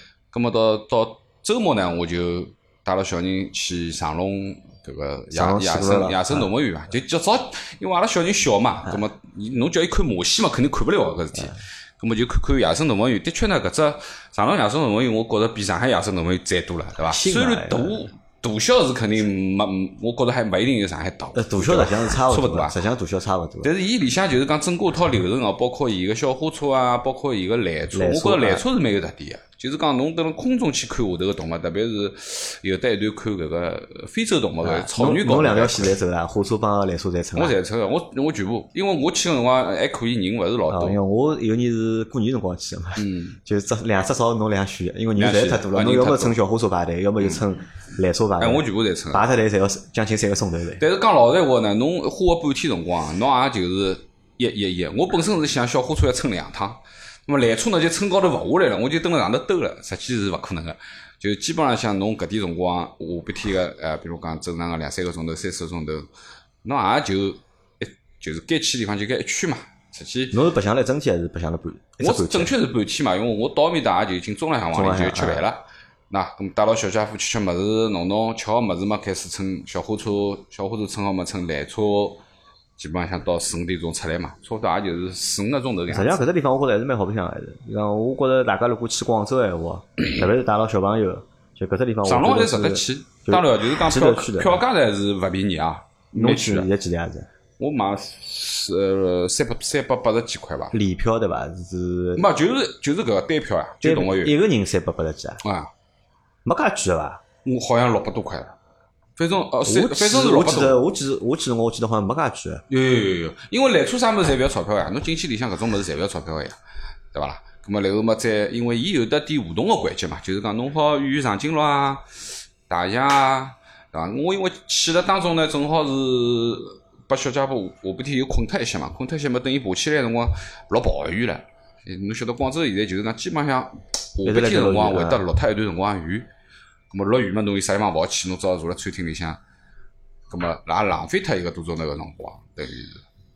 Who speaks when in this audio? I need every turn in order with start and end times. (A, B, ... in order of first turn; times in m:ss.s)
0:00.3-0:22.8 A
0:05.3-0:06.5 B
0:17.0-0:18.0 B
0:21.3-0:23.7 B
0:23.6-0:36.0 A
0:27.9-0:28.6 B
0:34.6-0:37.6 B
0:37.4-0:41.0 A
0:40.7-0:50.8 B
0:43.0-0:43.4 A
0:45.2-0:46.4 A
0:48.4-0:49.2 A
0:50.8-1:06.1 A
1:06.6-1:10.4 A
1:10.3-1:12.5 B
1:12.0-1:22.2 A
1:14.7-1:15.4 B
1:22.8-1:26.2 A
1:25.9-1:34.6 B
1:32.0-1:36.7 A
1:36.1-1:37.3 B
1:37.6-1:40.7 A
1:40.7-1:42.2 B
1:42.2-1:44.3 A
1:43.8-1:45.4 B
1:45.4-1:45.7 A
1:46.4-1:47.2 B
1:47.4-1:48.5 A
1:49.2-1:50.8 A
1:49.6-1:52.6 B
1:52.7-1:56.6 A
1:57.1-2:02.0 A
2:02.7-2:16.3 A
2:14.2-2:15.2 B
2:16.9-2:19.4 A
2:20.3-2:23.0 A